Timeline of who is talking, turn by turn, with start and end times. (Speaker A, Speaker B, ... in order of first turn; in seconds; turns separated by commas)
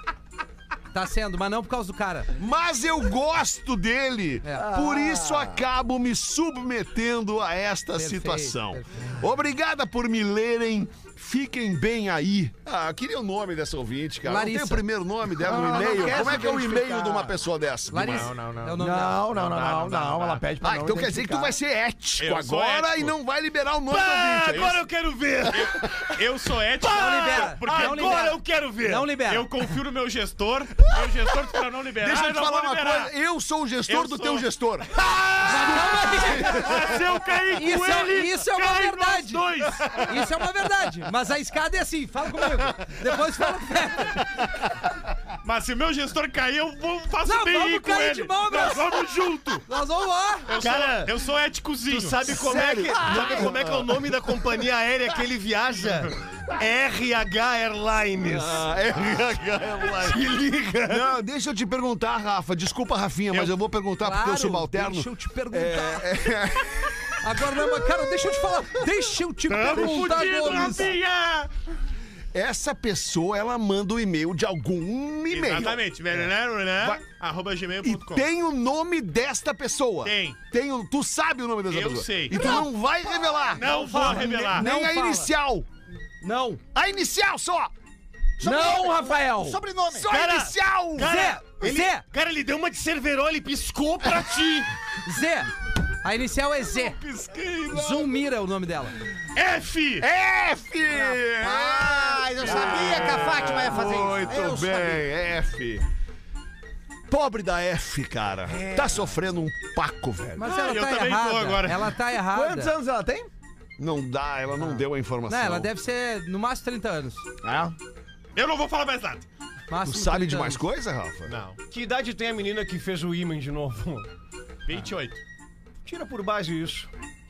Speaker A: 0.9-2.3, Speaker B: 2.4-18.3, Speaker C: 4.5-5.6, Speaker A: 8.0-9.1, Speaker A: 14.2-14.8, Speaker C: 15.4-17.4, Speaker A: 17.9-19.2, Speaker D: 18.0-20.5, Speaker C: 18.8-21.6, Speaker B: 20.6-24.8, Speaker D: 22.2-23.1, Speaker E: 23.9-26.0, Speaker D: 25.5-28.4, Speaker E: 26.8-29.1, Speaker A: 27.0-29.5, Speaker D: 29.3-33.1, Speaker B: 32.0-37.0, Speaker D: 33.9-34.5, Speaker A: 35.5-36.7, Speaker D: 36.3-40.1, Speaker A: 37.5-44.3, Speaker D: 45.4-49.6, Speaker A: 47.2-49.0, Speaker E: 49.0-49.4, Speaker A: 49.7-50.5, Speaker D: 50.5-52.2, Speaker E: 50.6-51.1, Speaker E: 51.8-58.7, Speaker B: 52.4-54.1, Speaker B: 58.2-60.2, Speaker E: 59.9-61.1, Speaker B: 60.9-67.7, Speaker A: 64.0-66.1, Speaker A: 67.2-71.0, Speaker D: 69.5-71.5, Speaker B: 69.9-70.7, Speaker B: 72.3-76.2, Speaker D: 75.3-78.3, Speaker B: 77.8-85.7, Speaker D: 80.0-80.4, Speaker D: 81.7-82.6, Speaker D: 83.5-84.7, Speaker A: 83.7-85.3, Speaker A: 86.2-86.6, Speaker B: 86.7-87.7, Speaker F: 88.4-90.1, Speaker C: 88.4-89.6, Speaker B: 89.9-91.2, Speaker E: 90.0-94.7, Speaker A: 91.0-92.0, Speaker A: 95.0-95.5, Speaker A: 96.0-97.0, Speaker B: 96.7-98.1, Speaker A: 97.7-99.0, Speaker D: 99.4-100.0, Speaker B: 100.0-105.8, Speaker F: 101.4-105.1, Speaker B: 107.1-110.5, Speaker A: 110.4-112.7, Speaker D: 110.4-112.0, Speaker C: 112.2-113.3, Speaker B: 113.8-115.7, Speaker A: 114.6-117.2, Speaker C: 117.4-117.8, Speaker D: 118.3-119.3, Speaker A: 119.7-120.6, Speaker B: 119.8-121.4, Speaker D: 121.3-121.6, Speaker E: 121.7-124.1, Speaker D: 124.7-125.2, Speaker E: 125.8-126.9